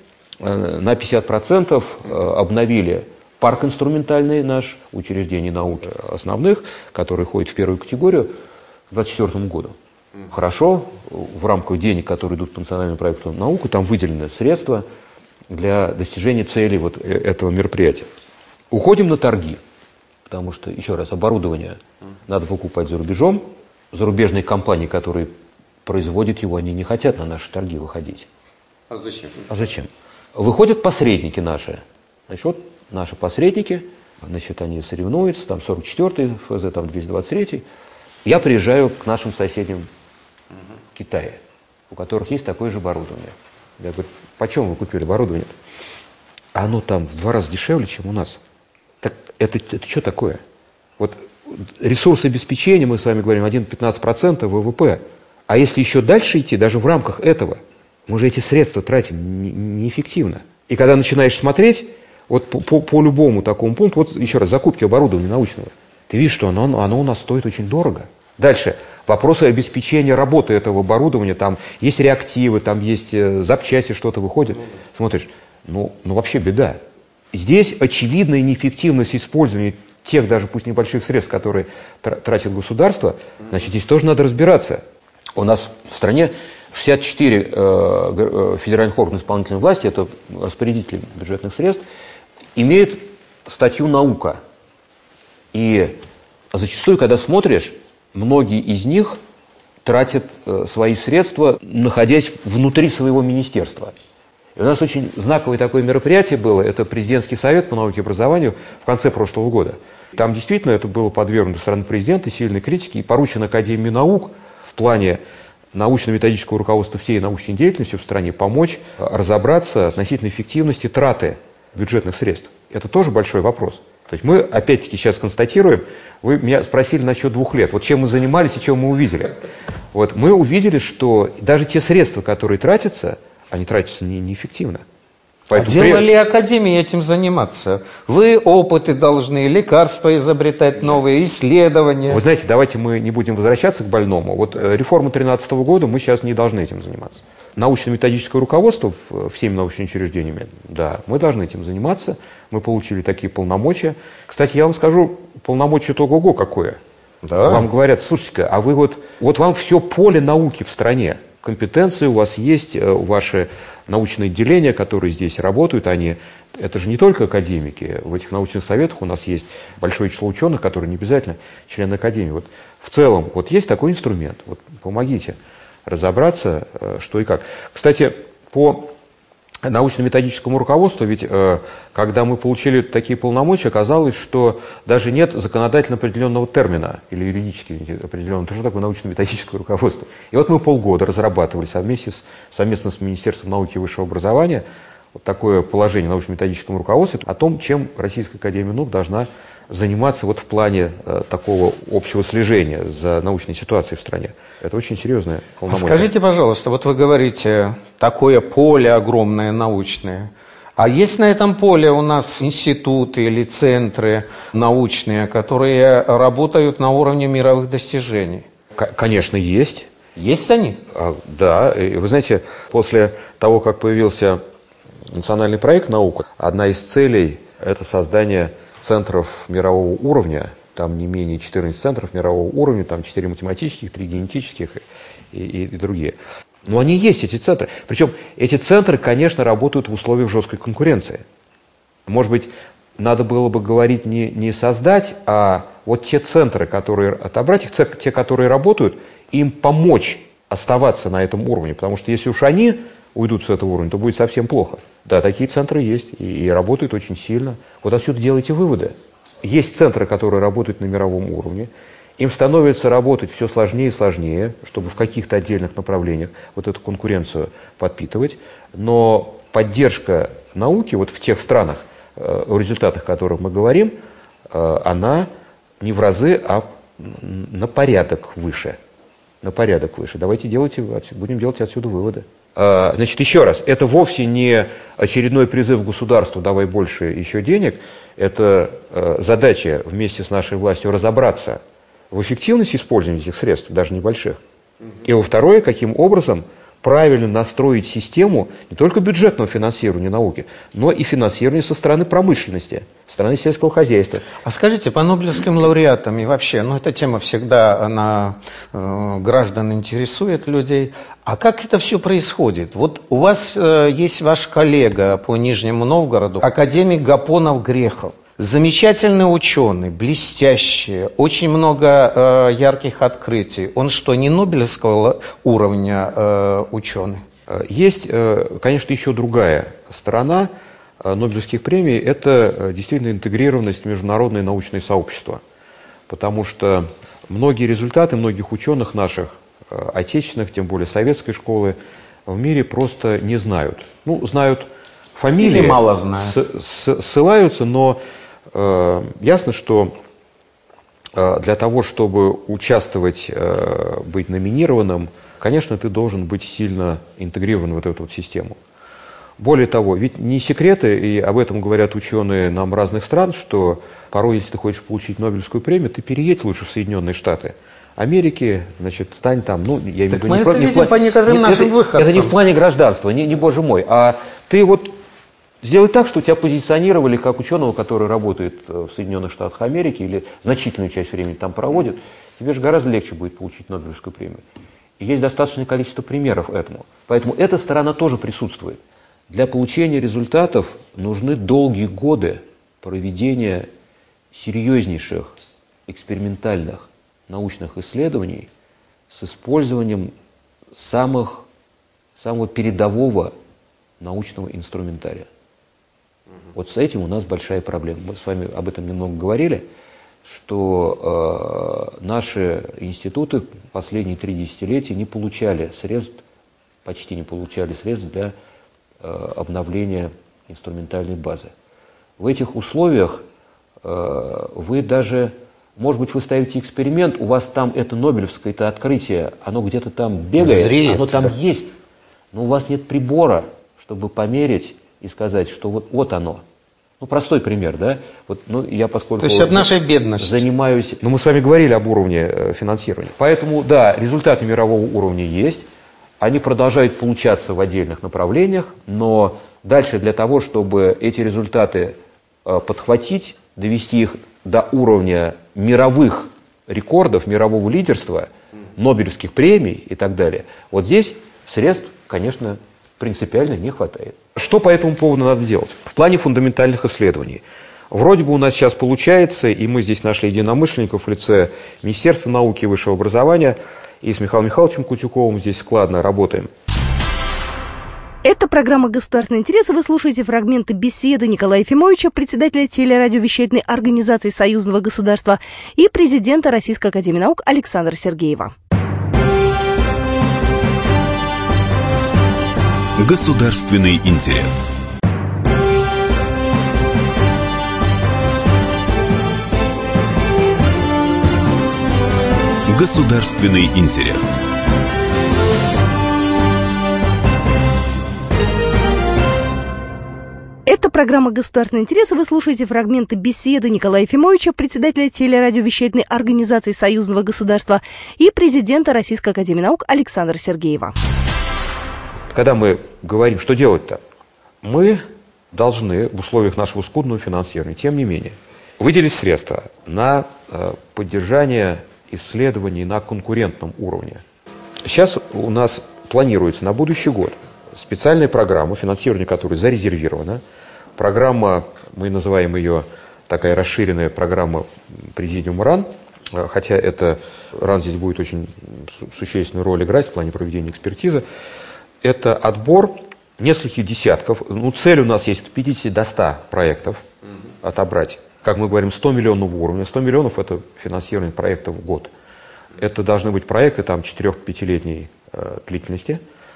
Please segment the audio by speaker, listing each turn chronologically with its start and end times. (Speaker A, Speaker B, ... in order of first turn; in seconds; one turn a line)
Speaker A: 0.4-8.3
Speaker A: 8.9-9.8
Speaker A: 10.3-14.9
Speaker A: 15.5-18.1
Speaker A: 18.7-19.6
Speaker A: 20.3-25.3
Speaker A: 25.9-28.3
Speaker B: 28.9-29.4
Speaker A: 29.5-37.6
Speaker A: 38.2-39.9
Speaker A: 40.9-41.4
Speaker A: 41.9-45.5
Speaker A: 46.5-48.4
Speaker A: 49.0-50.4
Speaker A: 51.0-76.8
Speaker A: 77.3-84.8
Speaker A: 85.4-91.8
Speaker A: 92.6-94.4
Speaker A: 95.5-96.0
Speaker A: 96.5-99.2
Speaker A: 99.8-103.9
Speaker A: 104.6-115.2
Speaker A: 115.7-129.4
Speaker A: 129.9-134.8
Speaker A: 135.5-136.1
Speaker B: 135.6-142.2
Speaker A: 142.1-156.8
Speaker B: 157.2-157.7
Speaker A: 157.4-178.9
Speaker A: 179.7-194.6
Speaker A: 195.2-206.1
Speaker B: 205.7-218.5
Speaker A: 218.8-219.9
Speaker B: 220.2-220.8
Speaker A: 220.9-224.4
Speaker A: 225.1-241.2
Speaker A: 242.1-274.0
Speaker A: 274.5-275.3
Speaker A: 275.8-278.8
Speaker A: 279.4-291.6
Speaker A: 292.1-294.4
Speaker A: 295.0-304.3
Speaker B: 304.4-327.2
Speaker A: 327.5-335.4
Speaker A: 336.1-341.8
Speaker A: 342.3-348.0
Speaker B: 345.4-346.4
Speaker A: 348.5-349.9
Speaker A: 351.1-358.6
Speaker A: 359.4-375.0
Speaker B: 370.1-372.4
Speaker A: 375.6-384.4
Speaker A: 385.0-393.7
Speaker A: 394.3-395.3
Speaker A: 395.9-398.5
Speaker A: 399.1-400.1
Speaker A: 400.7-401.5
Speaker A: 402.2-403.3
Speaker A: 404.0-405.3
Speaker A: 406.5-409.6
Speaker A: 410.2-416.2
Speaker A: 416.9-418.4
Speaker A: 419.0-421.5
Speaker A: 422.2-423.2
Speaker A: 423.8-431.7
Speaker B: 430.4-431.3
Speaker A: 432.3-436.4
Speaker A: 437.0-445.6
Speaker B: 439.2-440.4
Speaker A: 446.2-476.5
Speaker C: 478.2-488.5
Speaker D: 493.0-494.7
Speaker D: 502.7-504.4
Speaker C: 510.7-521.0
Speaker A: 522.3-524.0
Speaker A: 524.6-534.2
Speaker A: 534.8-540.4
Speaker A: 541.0-551.2
Speaker A: 552.0-557.0
Speaker A: 557.6-562.1
Speaker A: 562.8-566.2